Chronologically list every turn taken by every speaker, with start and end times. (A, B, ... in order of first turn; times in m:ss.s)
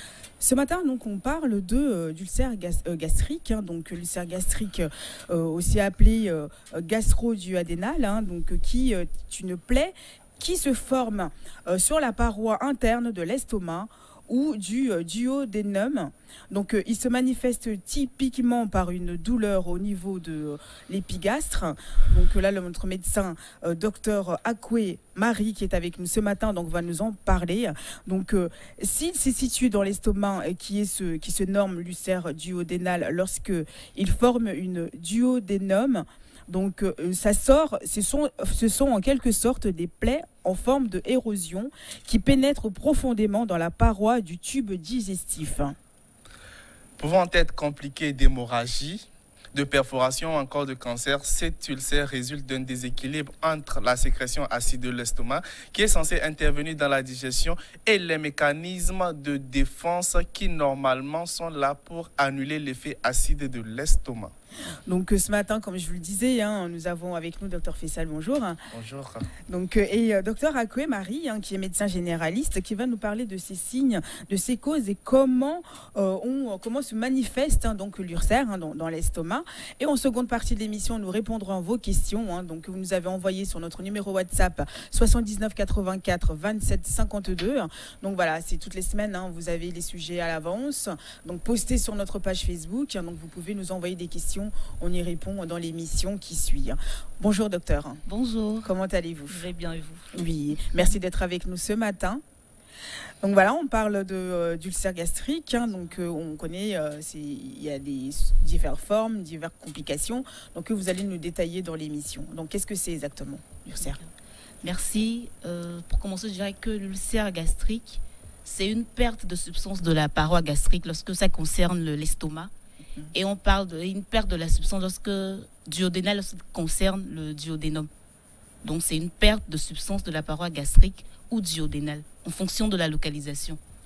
0:00.4-0:45.8 A
0:47.0-1:04.3 B
1:04.9-1:08.6 A
1:08.7-1:09.3 B
1:09.5-1:38.0 A
1:38.0-1:38.7 C
1:38.6-1:39.4 A
1:39.3-1:40.1 C
1:40.1-1:42.2 A
1:43.2-1:54.0 A
1:45.7-1:46.0 C
1:53.7-1:54.1 C
1:54.6-2:02.5 C
2:03.1-2:07.9 C
2:08.6-2:13.6 C